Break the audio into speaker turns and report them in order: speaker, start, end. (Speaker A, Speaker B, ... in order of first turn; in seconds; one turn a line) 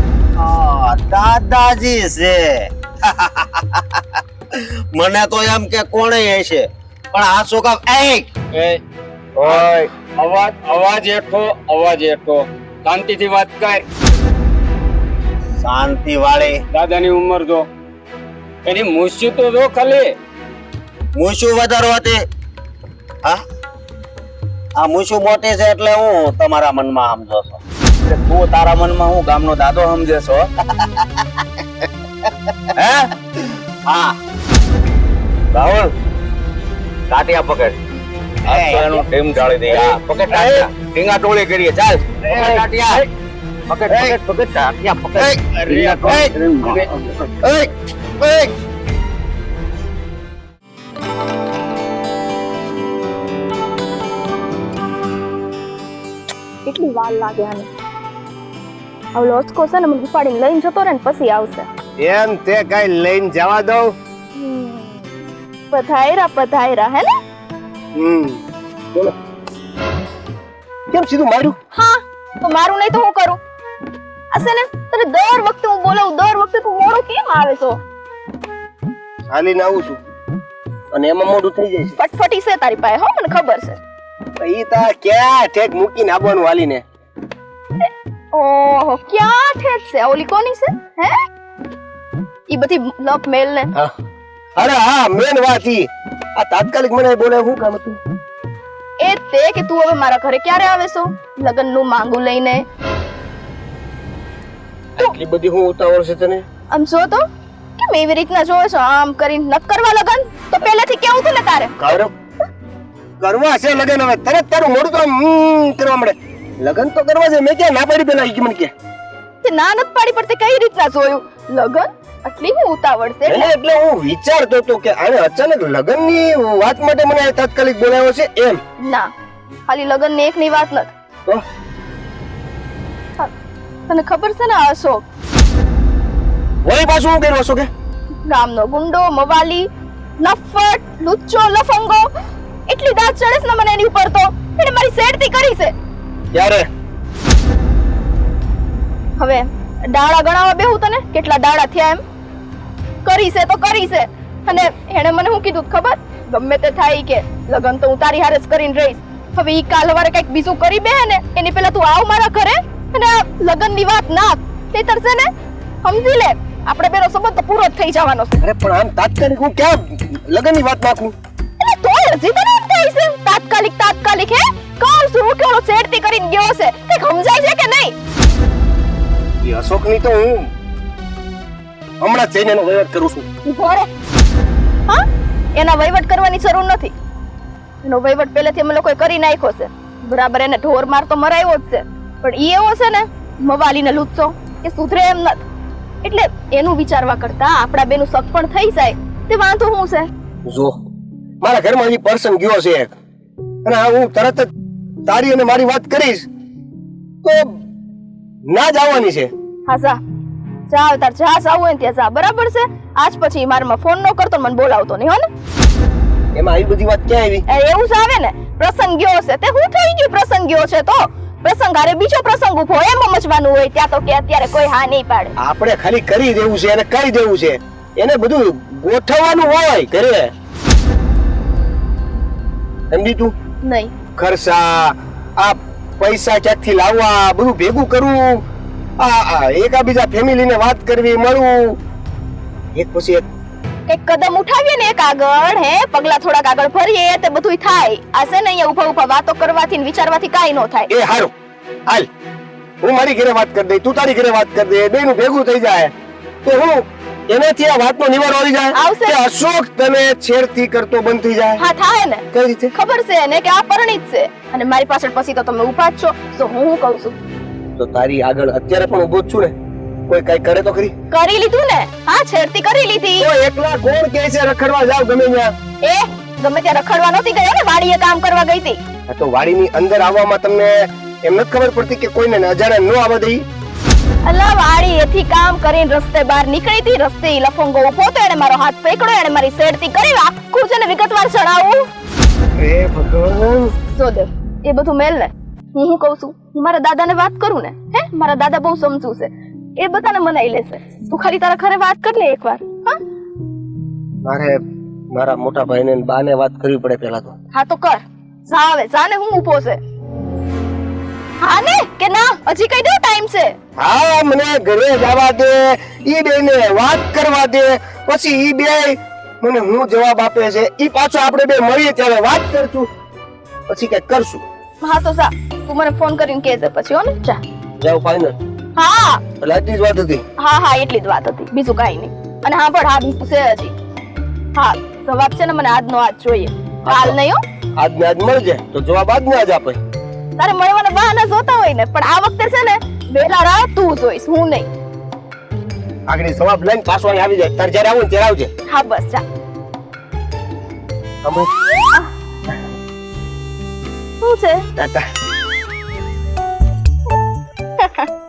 Speaker A: 0.4-8.3
Speaker B: 8.5-8.8
Speaker A: 9.4-9.9
Speaker B: 9.4-13.8
Speaker A: 15.6-16.6
Speaker B: 16.7-17.6
Speaker B: 18.7-20.1
Speaker A: 21.1-22.2
Speaker A: 24.8-27.6
Speaker C: 28.1-30.5
Speaker A: 32.8-33.0
Speaker A: 33.9-34.2
Speaker C: 35.5-35.9
Speaker C: 37.1-37.8
Speaker A: 38.5-39.1
Speaker C: 38.5-43.0
Speaker A: 39.7-40.6
Speaker A: 42.3-43.0
Speaker C: 43.7-47.0
Speaker A: 43.9-44.2
Speaker A: 45.2-46.3
Speaker B: 45.5-46.0
Speaker A: 47.4-48.5
Speaker D: 56.6-57.7
Speaker D: 59.1-61.7
Speaker E: 62.0-63.9
Speaker D: 64.4-65.2
Speaker D: 65.7-67.1
Speaker E: 68.0-68.4
Speaker E: 70.9-71.6
Speaker D: 71.7-73.4
Speaker D: 74.3-77.8
Speaker E: 79.3-80.0
Speaker E: 80.9-82.0
Speaker D: 82.0-83.8
Speaker E: 84.4-86.8
Speaker D: 87.8-91.1
Speaker D: 92.5-93.7
Speaker E: 94.6-98.0
Speaker D: 99.0-102.6
Speaker E: 105.0-106.4
Speaker D: 106.7-107.2
Speaker D: 107.8-111.7
Speaker E: 111.8-112.1
Speaker E: 113.2-118.7
Speaker D: 119.4-123.5
Speaker E: 123.3-128.6
Speaker D: 128.8-129.1
Speaker D: 129.7-130.9
Speaker D: 133.9-135.0
Speaker E: 136.7-137.7
Speaker D: 138.3-139.7
Speaker D: 140.2-142.1
Speaker D: 142.7-145.7
Speaker E: 146.3-146.7
Speaker D: 149.2-152.0
Speaker D: 153.1-165.3
Speaker D: 165.8-168.4
Speaker E: 168.4-171.1
Speaker D: 171.6-177.9
Speaker E: 179.4-180.5
Speaker E: 182.0-183.3
Speaker D: 183.4-183.9
Speaker D: 185.6-186.9
Speaker D: 187.8-195.4
Speaker D: 196.0-200.1
Speaker E: 200.5-200.8
Speaker E: 201.4-202.9
Speaker E: 203.7-204.5
Speaker E: 205.1-206.3
Speaker E: 208.5-209.3
Speaker D: 209.7-210.0
Speaker D: 210.7-215.3
Speaker E: 216.4-217.4
Speaker D: 217.5-225.3
Speaker E: 225.4-230.3
Speaker E: 232.9-233.3
Speaker D: 233.6-233.9
Speaker E: 234.2-238.4
Speaker E: 239.0-241.8
Speaker E: 242.8-243.2
Speaker D: 243.9-250.9
Speaker E: 250.9-251.3
Speaker E: 252.8-255.9
Speaker E: 256.4-261.6
Speaker D: 258.7-259.2
Speaker D: 261.6-267.2
Speaker E: 262.3-262.7
Speaker E: 267.8-269.5
Speaker E: 270.1-270.9
Speaker D: 271.1-273.3
Speaker E: 273.2-275.5
Speaker D: 275.8-278.8
Speaker E: 279.1-283.4
Speaker D: 284.3-291.8
Speaker E: 292.6-293.7
Speaker D: 293.9-303.0
Speaker E: 304.3-304.6
Speaker E: 305.1-307.4
Speaker D: 307.5-309.8
Speaker D: 311.4-313.6
Speaker E: 313.8-322.9
Speaker E: 323.7-324.4
Speaker D: 324.8-327.4
Speaker E: 327.8-328.3
Speaker D: 328.8-329.2
Speaker E: 329.4-330.2
Speaker D: 330.4-333.7
Speaker D: 334.6-337.4
Speaker E: 336.9-337.2
Speaker E: 337.8-339.8
Speaker D: 340.4-344.7
Speaker E: 346.1-348.5
Speaker D: 348.7-349.2
Speaker E: 351.2-351.5
Speaker D: 354.2-354.7
Speaker E: 354.8-355.0
Speaker D: 357.8-358.1